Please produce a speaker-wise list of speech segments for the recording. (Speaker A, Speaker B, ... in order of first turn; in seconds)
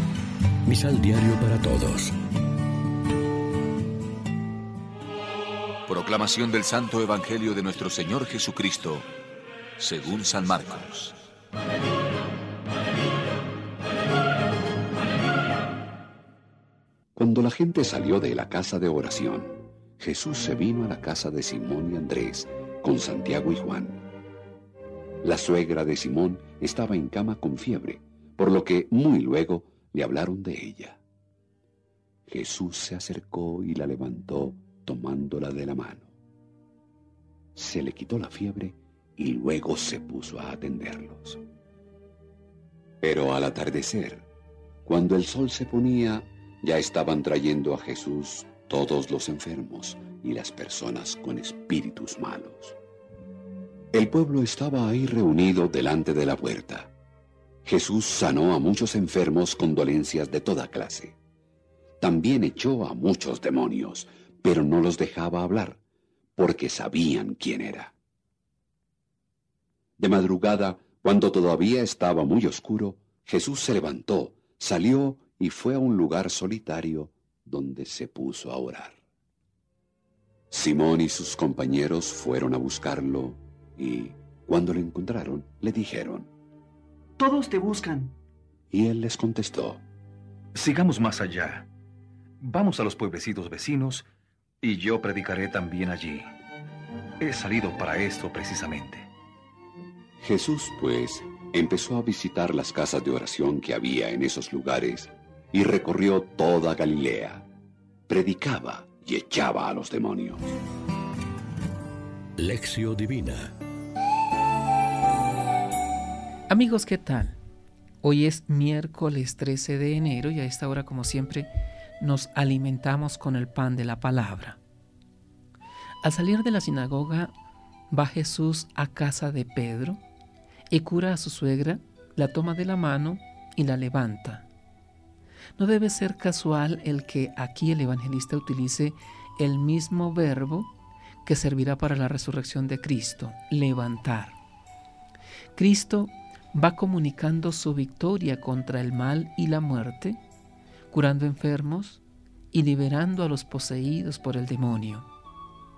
Speaker A: 0.7-2.1, 112.4-113.5
Speaker B: 5.9-9.1, 9.8-11.2
Speaker C: 17.1-24.0, 25.2-31.0, 32.3-36.1, 37.5-41.4, 43.0-44.3, 44.9-52.8, 53.9-56.9, 57.6-61.2, 62.0-65.8, 66.4-67.9, 70.0-79.0, 80.5-86.3, 88.7-89.8, 100.2-107.5, 108.1-110.5
Speaker D: 87.2-88.1, 90.5-91.7, 92.4-94.1, 94.6-96.3, 97.2-99.1
Speaker E: 116.5-117.4, 118.0-124.6, 126.0-127.3, 127.9-130.0, 130.7-134.5, 135.6-140.7, 141.2-144.4, 145.5-150.2, 150.9-155.1